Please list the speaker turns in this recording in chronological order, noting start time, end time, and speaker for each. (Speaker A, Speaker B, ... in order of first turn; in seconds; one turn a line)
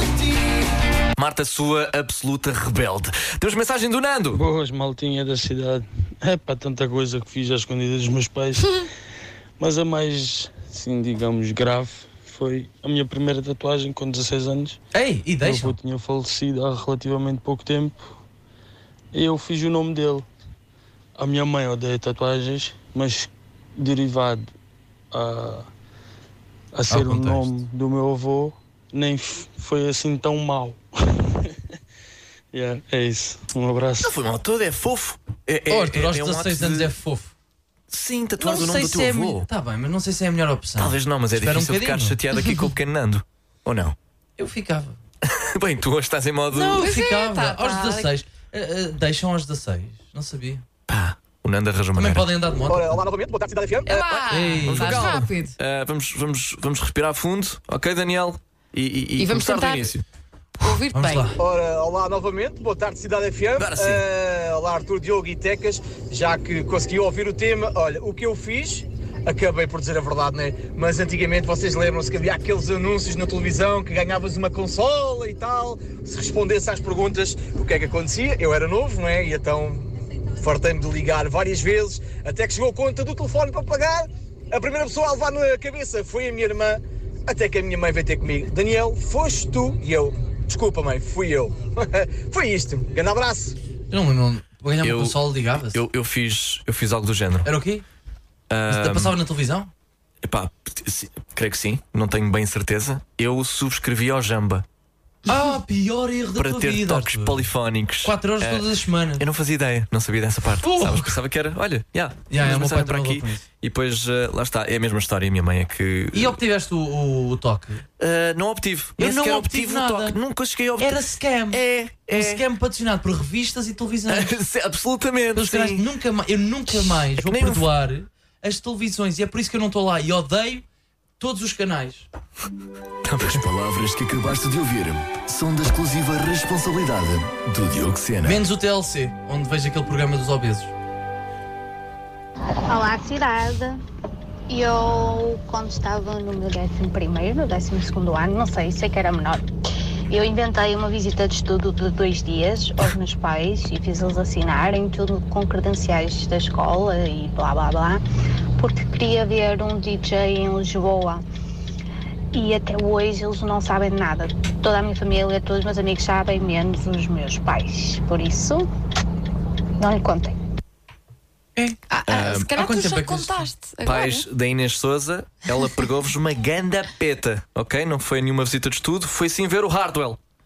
Speaker A: 1.2-4.4
Speaker B: 4.3-8.7
Speaker B: 9.6-14.8
Speaker C: 14.9-15.8
Speaker B: 15.4-18.2
Speaker B: 19.1-20.2
Speaker B: 21.2-24.5
Speaker B: 25.1-25.7
Speaker B: 26.7-30.8
Speaker C: 26.9-27.6
Speaker B: 32.5-34.1
Speaker A: 34.0-36.9
Speaker C: 35.7-37.3
Speaker A: 37.9-39.5
Speaker C: 38.4-42.2
Speaker A: 40.8-44.0
Speaker C: 44.4-45.0
Speaker A: 45.2-46.9
Speaker D: 46.5-48.1
Speaker C: 46.7-50.6
Speaker A: 50.9-52.3
Speaker C: 52.0-53.0
Speaker E: 52.7-54.1
Speaker D: 53.9-55.6
Speaker C: 54.3-55.3
Speaker A: 54.6-60.0
Speaker D: 59.2-59.9
Speaker D: 60.6-61.3
Speaker C: 60.9-61.4
Speaker E: 61.4-93.6
Speaker A: 63.6-64.0
Speaker C: 93.9-95.8
Speaker A: 94.8-97.5
Speaker C: 97.4-97.8
Speaker A: 98.5-99.2
Speaker C: 98.7-99.7
Speaker A: 100.2-104.6
Speaker C: 105.3-107.5
Speaker A: 106.4-108.7
Speaker C: 108.0-109.2
Speaker A: 109.2-116.4
Speaker C: 110.6-111.2
Speaker C: 112.3-113.5
Speaker C: 116.1-117.8
Speaker A: 118.0-121.0
Speaker C: 119.0-120.2
Speaker C: 120.8-124.4
Speaker A: 121.5-122.4
Speaker A: 124.1-125.8
Speaker C: 125.4-130.6
Speaker A: 126.8-127.7
Speaker C: 131.2-132.1
Speaker A: 133.0-133.4
Speaker F: 133.2-138.4
Speaker C: 138.2-140.7
Speaker G: 142.7-143.8
Speaker G: 144.5-149.4
Speaker G: 150.1-158.0
Speaker G: 158.6-161.2
Speaker G: 162.3-168.7
Speaker G: 169.8-170.3
Speaker D: 171.9-174.3
Speaker A: 172.1-172.5
Speaker C: 172.5-173.5
Speaker A: 173.8-180.2